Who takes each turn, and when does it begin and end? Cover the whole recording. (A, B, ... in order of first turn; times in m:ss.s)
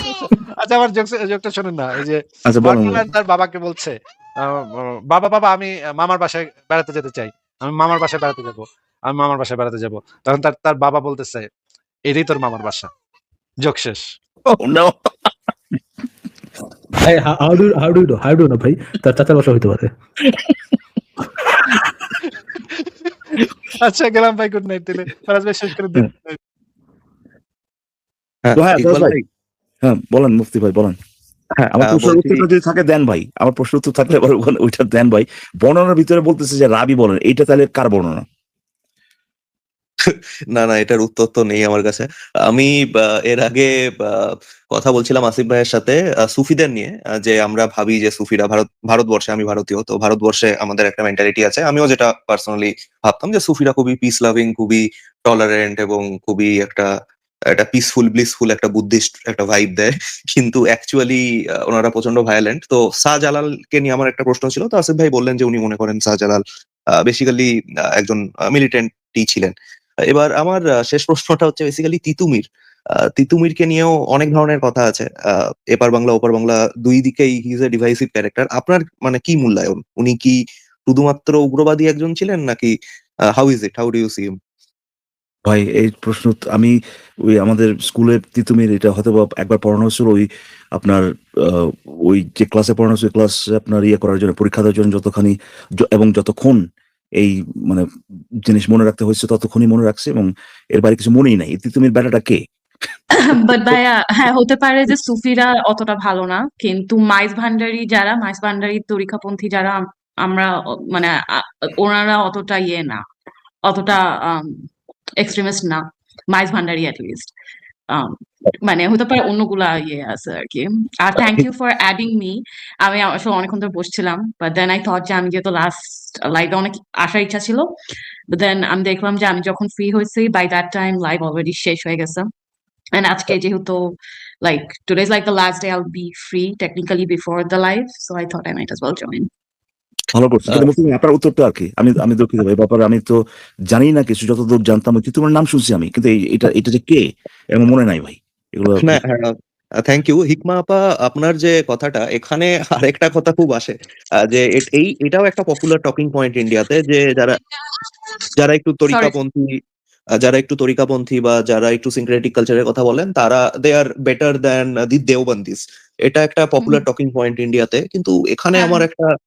0:00.3-0:11.5 A
0:02.4-0:03.0 B
0:12.1-0:12.9 A
0:13.6-0:14.1 A
0:14.5-0:15.3 B
0:17.0-0:19.9 C
0:23.8-0:26.4 A
0:28.4-0:29.2 D
0:28.6-0:29.2 B
0:29.8-0:31.0 B
0:31.6-0:32.4 D
0:31.7-0:38.2 B
0:40.0-0:56.9 D
0:57.5-1:06.4 D
1:06.9-1:09.5 D
1:10.1-1:12.4 D
1:13.1-1:22.7 D
1:23.3-1:24.3 D
1:25.4-1:26.7 B
1:27.3-1:36.6 B
1:37.2-1:37.8 B
1:38.4-1:42.4 B
1:43.2-1:53.0 E
1:53.6-1:57.3 E
1:57.9-2:07.7 E
2:08.3-2:12.3 E
2:12.9-2:19.3 E
2:20.1-2:29.0 B
2:28.8-2:29.3 D
2:29.8-2:37.3 D
2:38.4-2:39.5 D
2:40.2-2:49.0 D
2:48.5-2:48.8 E